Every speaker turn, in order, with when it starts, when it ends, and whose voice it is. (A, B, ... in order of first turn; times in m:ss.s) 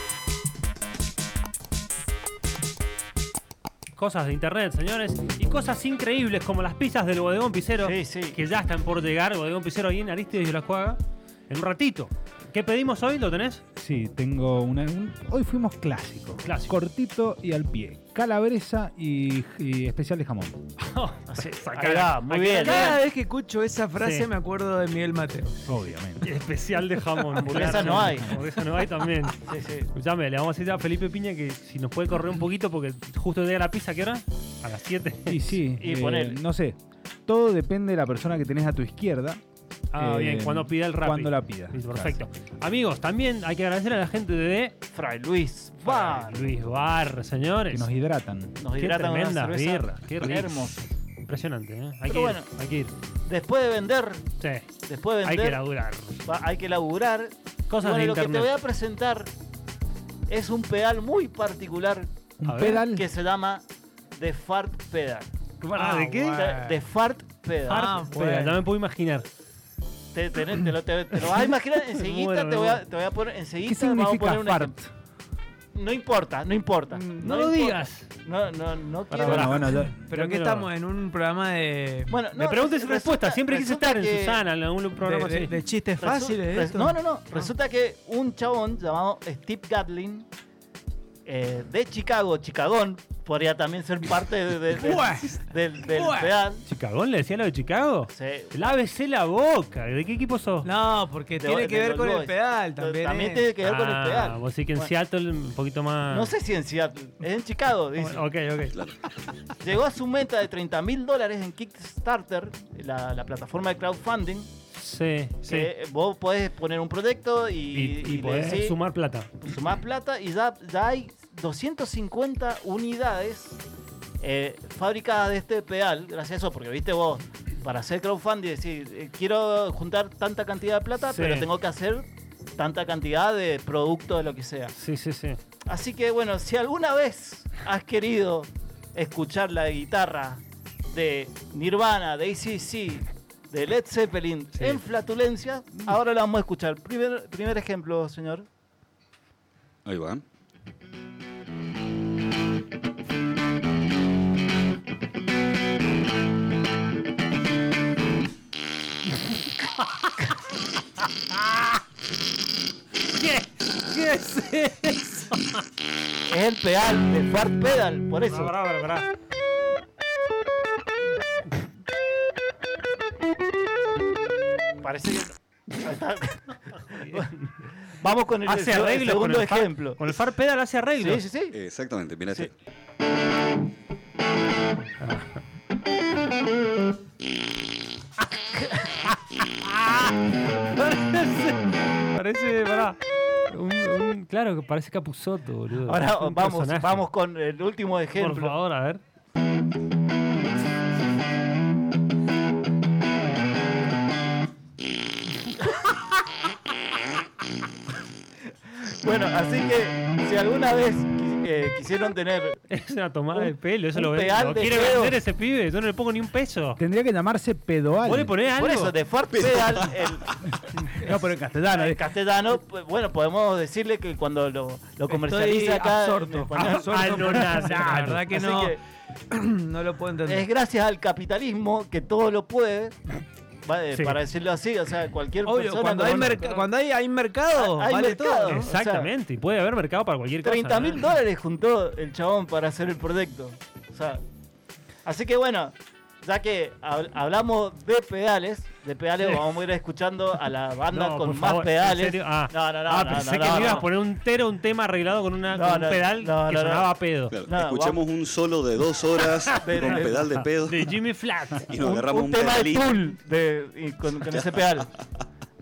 0:03.9-0:13.6 A
0:07.8-0:08.4 B
0:13.8-0:20.6 C
0:16.4-0:16.8 A
0:20.9-0:23.0 A
0:21.3-0:23.0 B
0:22.6-0:25.7 D
0:24.0-0:24.3 A
0:25.6-0:26.3 C
0:26.2-0:35.5 A
0:27.5-0:28.3 B
0:27.8-0:28.4 C
0:29.4-0:29.9 B
0:35.2-0:39.4 C
0:35.8-0:36.4 B
0:39.9-0:44.8 A
0:40.0-0:42.2 C
0:44.9-0:46.5 B
0:45.8-0:47.9 A
0:47.7-0:48.6 C
0:48.6-0:50.8 B
0:48.8-0:52.9 A
0:52.1-0:52.5 B
0:53.2-0:54.2 B
0:54.4-0:54.6 A
0:54.8-0:55.6 B
0:55.2-0:56.2 A
0:56.2-0:59.3 B
0:57.7-0:58.5 A
1:00.3-1:02.1 B
1:02.4-1:03.0 C
1:02.4-1:02.8 A
1:02.8-1:03.6 B
1:04.1-1:05.3 B
1:05.6-1:06.8 D
1:05.7-1:06.4 A
1:06.3-1:07.9 B
1:07.7-1:09.2 A
1:07.7-1:08.6 D
1:10.1-1:14.8 B
1:11.2-1:12.8 A
1:13.6-1:14.9 C
1:15.7-1:19.8 B
1:16.9-1:17.3 D
1:17.2-1:18.1 A
1:19.1-1:20.7 A
1:19.2-1:19.9 C
1:20.1-1:22.1 D
1:22.1-1:24.4 B
1:22.3-1:25.6 A
1:25.0-1:27.0 D
1:26.0-1:30.3 B
1:31.2-1:36.6 B
1:34.7-1:36.4 D
1:36.6-1:40.7 A
1:38.1-1:38.7 B
1:40.6-1:43.5 D
1:41.4-1:44.9 B
1:43.6-1:46.3 A
1:46.1-1:48.2 B
1:48.0-1:48.8 A
1:49.6-1:54.5 B
1:54.7-1:55.7 A
1:55.4-1:58.8 B
1:57.7-1:59.3 A
1:59.4-2:03.6 B
2:04.2-2:14.7 B
2:11.0-2:11.5 A
2:14.8-2:15.4 A
2:15.6-2:28.4 B
2:24.6-2:24.8 A
2:29.8-2:30.2 E
2:43.1-2:45.6 A
2:46.3-2:48.5 B
2:48.3-2:49.1 A
2:54.8-2:57.3 B
2:56.9-2:57.3 A
2:57.9-3:00.1 B
2:58.4-3:01.2 A
3:01.0-3:01.6 B
3:01.5-3:02.5 E
3:05.0-3:05.4 A
3:10.8-3:13.0 A
3:13.5-3:17.0 A
3:15.9-3:18.5 B
3:18.2-3:19.0 A
3:28.8-3:32.6 B
3:32.7-3:36.8 A
3:33.3-3:35.2 B
3:36.8-3:38.3 C
3:38.0-3:38.9 A
3:38.5-3:40.6 B
3:39.3-3:40.0 E
3:40.6-3:42.1 C
3:41.7-3:48.8 B
3:45.1-3:48.7 D
3:46.6-3:48.2 A
3:49.3-3:50.5 D
3:50.3-3:53.0 B
3:53.6-3:56.7 B
3:55.4-3:58.6 D
3:57.5-3:59.1 B
3:58.5-4:01.1 A
4:00.4-4:04.2 B
4:05.0-4:13.9 B
4:10.9-4:17.3 A
4:15.5-4:16.9 B
4:17.3-4:21.0 E
4:17.5-4:18.0 B
4:19.6-4:20.4 B
4:19.6-4:20.1 A
4:20.6-4:21.7 A
4:21.5-4:22.9 E
4:21.8-4:24.9 B